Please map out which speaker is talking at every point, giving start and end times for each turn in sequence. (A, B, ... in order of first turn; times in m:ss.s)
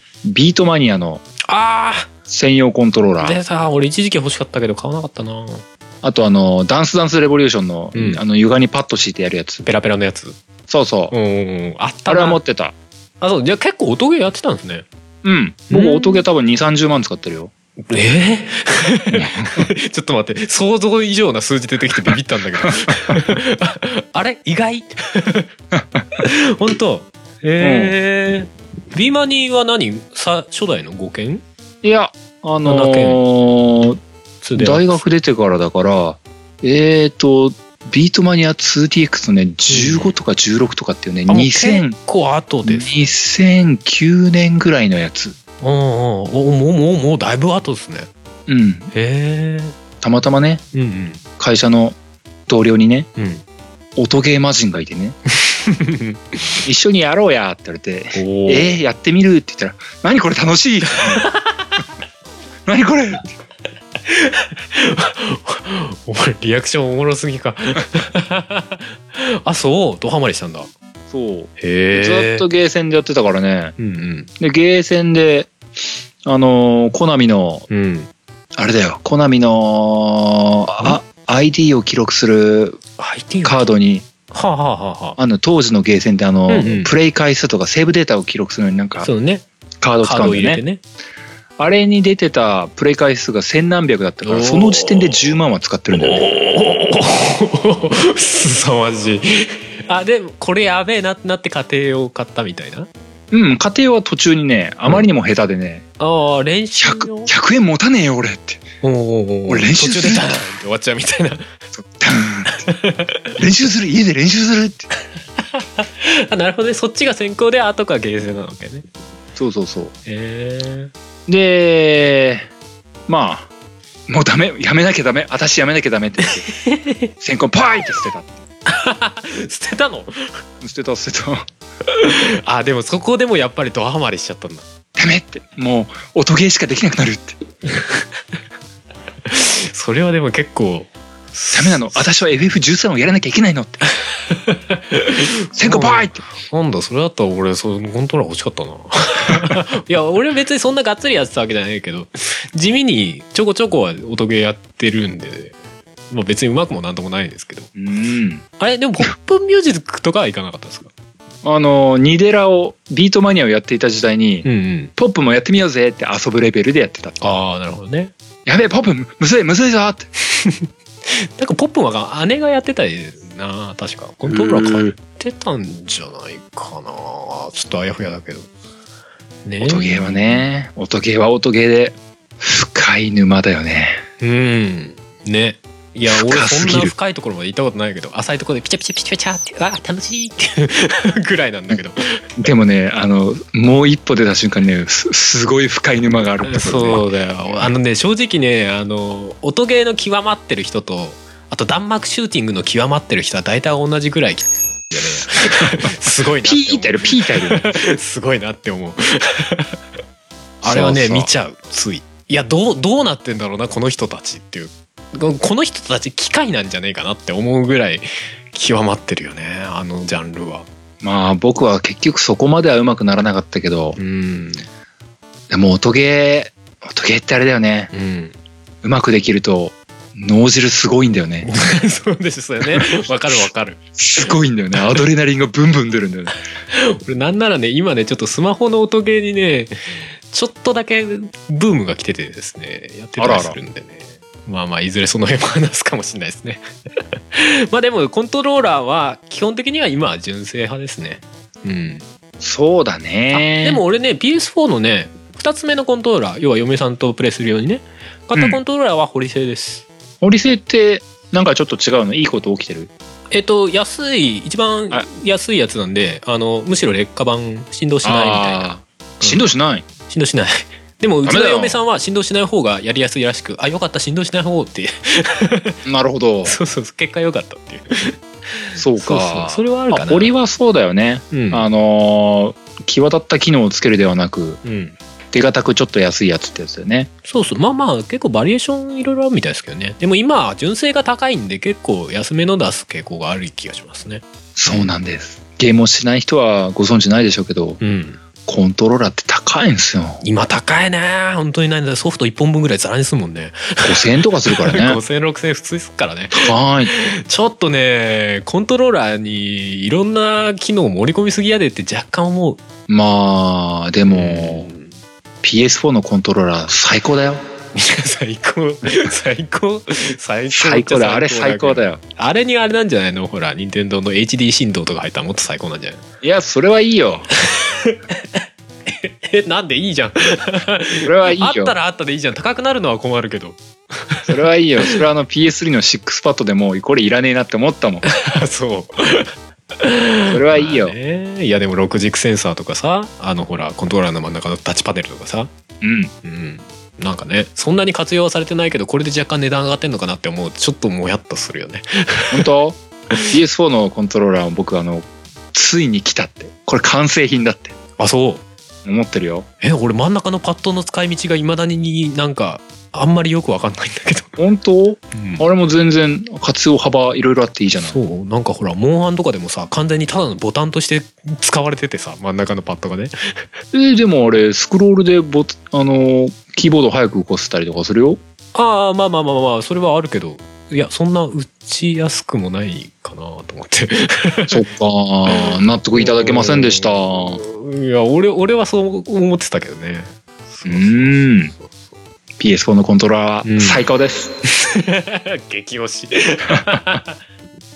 0:00.2-0:01.2 A
0:01.5-0:02.1 B
0:02.3-0:03.4 A
0:03.2-0:05.6 B
0:06.0-0:09.6 A
0:07.9-0:08.2 B
0:09.6-0:10.4 B
0:10.7-0:11.1 A
0:11.1-0:12.4 B
0:12.1-0:12.7 A
0:13.2-0:14.8 B
0:15.2-0:17.5 A
0:15.7-0:16.2 B
0:17.9-0:25.5 B
0:19.1-0:19.6 A
0:22.6-0:23.1 A
0:26.2-0:31.4 B
0:27.6-0:27.9 A
0:31.8-0:34.0 A
0:32.6-0:33.2 B
0:34.4-0:35.0 B
0:34.6-0:41.9 A
0:39.7-0:40.1 B
0:41.3-0:42.9 B
0:42.6-0:45.4 A
0:45.6-0:48.1 B
0:48.5-0:48.9 A
0:48.9-0:49.8 B
0:50.0-0:50.6 A
0:50.7-0:51.2 B
0:51.4-0:53.1 A
0:53.2-0:53.4 B
0:54.0-0:55.2 A
0:55.3-0:56.6 B
0:56.6-1:01.2 A
0:58.1-0:58.8 B
1:01.1-1:01.7 B
1:02.6-1:03.3 A
1:04.1-1:10.7 B
1:11.1-1:13.7 A
1:11.6-1:12.5 B
1:13.8-1:14.3 B
1:14.4-1:15.5 A
1:16.2-1:17.6 A
1:17.7-1:18.1 B
1:18.6-1:22.8 A
1:23.0-1:23.6 B
1:23.4-1:24.0 A
1:24.3-1:25.2 B
1:25.2-1:29.1 A
1:26.5-1:26.9 B
1:29.0-1:29.4 B
1:29.8-1:30.6 A
1:30.0-1:30.8 B
1:31.6-1:36.2 A
1:34.2-1:35.3 B
1:35.9-1:42.9 B
1:43.3-1:45.8 A
1:46.0-1:47.3 B
1:46.8-1:48.6 A
1:48.8-1:51.5 B
1:49.5-1:50.4 A
1:51.8-1:52.6 A
1:52.5-1:53.4 B
1:53.4-1:54.9 A
1:55.4-1:58.8 B
1:59.4-1:59.9 A
2:00.0-2:00.9 B
2:01.3-2:02.5 A
2:03.1-2:03.5 A
2:04.1-2:06.4 A
2:06.5-2:07.1 B
2:07.2-2:08.4 A
2:08.6-2:10.4 B
2:10.6-2:11.4 A
2:11.8-2:14.6 B
2:15.0-2:17.4 A
2:17.7-2:18.0 B
2:19.2-2:22.1 B
2:21.5-2:23.8 A
2:24.1-2:35.6 B
2:25.6-2:26.2 A
2:36.1-2:37.7 B
2:37.8-2:38.4 A
2:38.6-2:40.9 B
2:41.4-2:44.4 A
2:44.4-2:44.9 B
2:45.0-2:47.2 A
2:47.2-2:48.1 B
2:48.4-2:50.1 A
2:50.3-2:58.5 B
2:54.2-2:54.9 A
2:59.4-3:00.5 B
2:59.6-3:04.0 A
3:04.2-3:12.2 B
3:06.1-3:06.9 A
3:12.4-3:17.0 A
3:16.4-3:29.7 B
3:26.2-3:27.7 A
3:30.6-3:40.6 B
3:30.6-3:31.3 A
3:41.0-3:44.0 A
3:44.0-3:44.6 B
3:45.5-3:47.9 A
3:47.9-3:48.3 B
3:48.8-3:51.5 A
3:51.4-3:54.3 B
3:54.0-3:56.3 A
3:56.7-4:06.6 B
4:03.2-4:03.6 A
4:07.3-4:12.0 B
4:12.4-4:13.8 A
4:13.3-4:19.8 B
4:18.3-4:18.6 A
4:20.2-4:22.9 A
4:23.3-4:29.5 B
4:28.0-4:29.8 A
4:30.1-4:35.8 B
4:31.2-4:31.8 A
4:35.8-4:36.6 A
4:36.4-4:40.3 B
4:38.8-4:44.6 A
4:41.3-4:41.7 B
4:44.6-4:45.0 B
4:45.3-4:47.1 A
4:47.2-4:54.9 B
4:54.6-4:57.8 A
4:57.8-4:58.2 B
4:58.4-5:00.2 A
5:00.2-5:12.6 B
5:03.8-5:05.0 A
5:06.3-5:06.9 A
5:12.9-5:14.7 A
5:14.0-5:14.9 B
5:15.4-5:17.4 A
5:17.7-5:26.0 B
5:20.5-5:22.0 A
5:26.2-5:27.3 A
5:27.4-5:34.3 B
5:31.0-5:31.7 A
5:34.3-5:38.0 A
5:38.0-5:45.5 B
5:40.3-5:40.9 A
5:45.8-5:46.1 A
5:46.2-5:52.5 B
5:52.3-5:57.7 A
5:58.0-5:58.4 B
5:58.8-5:59.4 A
5:59.6-6:04.4 B
6:04.4-6:08.0 A
6:05.1-6:05.4 B
6:07.8-6:13.4 B
6:13.7-6:18.2 A
6:18.5-6:24.6 B
6:24.5-6:27.4 A
6:25.3-6:31.9 B
6:30.6-6:31.5 A
6:32.4-6:34.3 A
6:33.4-6:33.8 B
6:34.4-6:37.2 B